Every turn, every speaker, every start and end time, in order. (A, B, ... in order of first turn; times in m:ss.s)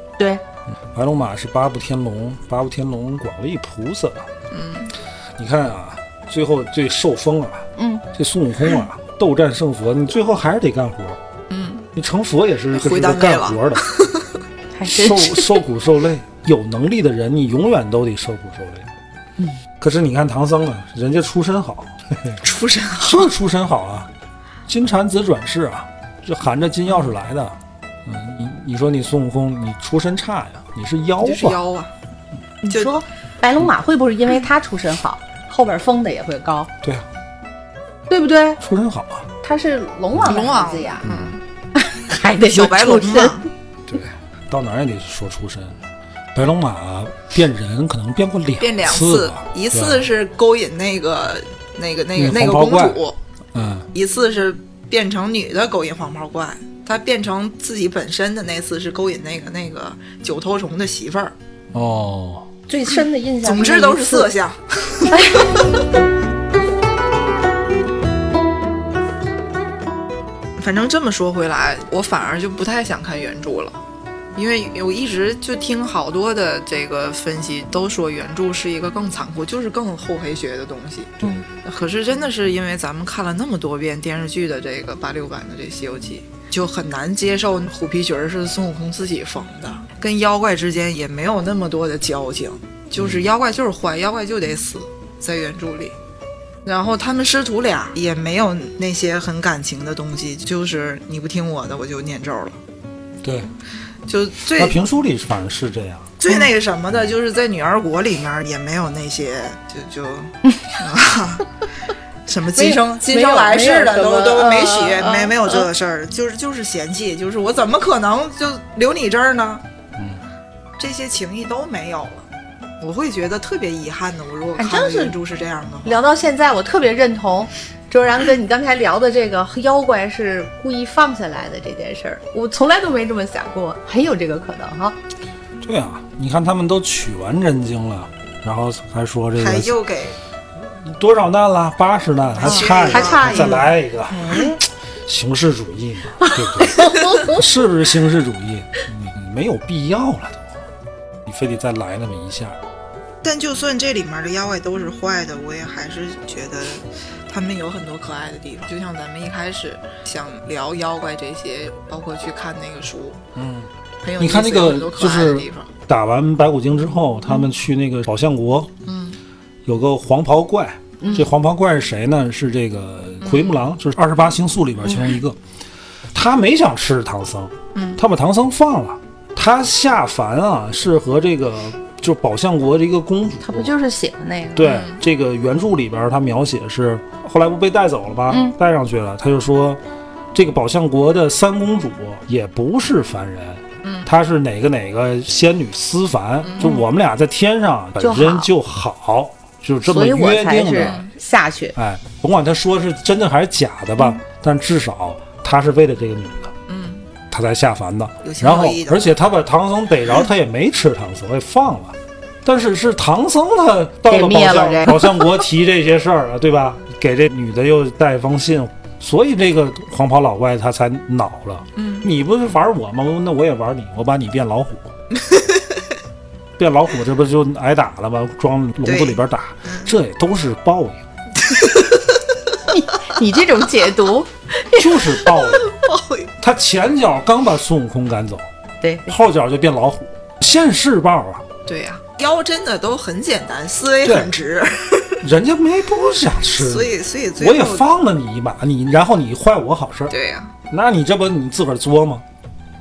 0:00.7-0:04.3 A
0:04.5-0:04.9 B
0:05.4-0:11.2 A
0:07.8-0:08.0 C
0:11.5-0:11.9 B
0:12.0-0:13.9 A
0:12.7-0:14.3 B
0:14.8-0:15.5 C
0:14.9-0:18.9 A
0:19.8-0:22.4 A
0:22.4-0:23.3 B
0:23.0-0:24.1 A
0:24.7-0:31.6 A
0:31.2-0:31.9 B
0:32.6-0:36.7 C
0:38.1-0:38.6 C
0:38.6-0:39.3 A
0:39.4-0:41.1 C
0:40.2-0:41.4 B
0:41.0-0:41.3 A
0:41.8-0:43.4 C
0:42.4-0:43.4 B
0:43.9-0:45.8 A
0:46.4-0:50.1 A
0:48.6-0:53.2 B
0:52.2-0:53.0 A
0:53.5-0:53.9 A
0:53.9-1:01.3 B
1:01.7-1:02.5 A
1:02.7-1:04.3 C
1:03.4-1:05.4 B
1:05.1-1:05.5 C
1:10.6-1:13.8 B
1:14.4-1:36.0 B
1:33.0-1:33.3 A
1:36.6-1:42.6 B
1:43.2-1:43.5 A
1:44.1-1:44.8 B
1:44.6-1:46.1 A
1:46.2-1:51.5 B
1:52.3-1:59.6 B
1:52.6-1:55.7 C
2:00.0-2:00.2 A
2:00.8-2:02.3 B
2:02.8-2:06.0 B
2:04.6-2:05.1 C
2:05.8-2:15.0 C
2:15.6-2:19.7 A
2:19.4-2:20.2 B
2:20.6-2:30.6 A
2:22.4-2:24.5 B
2:22.4-2:23.7 C
2:26.2-2:27.4 C
2:31.2-2:32.6 A
2:33.2-2:43.2 B
2:43.4-2:48.7 A
2:44.0-2:45.7 B
2:48.8-2:49.2 B
2:49.6-2:55.4 A
2:53.2-2:53.6 B
2:56.1-3:03.7 A
2:57.7-2:58.0 B
3:03.4-3:04.8 C
3:04.6-3:09.8 A
3:04.6-3:05.0 B
3:08.3-3:08.6 C
3:10.3-3:21.0 A
3:13.8-3:14.1 B
3:16.4-3:16.8 B
3:18.0-3:18.5 C
3:19.8-3:21.8 C
3:20.8-3:21.1 B
3:21.8-3:26.5 A
3:26.7-3:27.1 B
3:27.3-3:44.9 A
3:28.2-3:29.1 B
3:34.1-3:35.3 C
3:41.8-3:42.1 B
3:45.2-3:45.6 B
3:46.6-3:51.0 A
3:48.8-3:49.9 B
3:51.5-3:51.9 B
3:52.7-3:55.0 C
3:54.8-3:55.7 A
3:55.5-3:56.3 B
3:56.4-3:58.5 A
3:58.8-3:59.1 C
3:59.1-4:01.5 A
4:01.7-4:05.2 B
4:04.0-4:04.3 A
4:05.2-4:10.1 A
4:06.5-4:07.9 B
4:10.1-4:10.5 B
4:10.7-4:12.2 A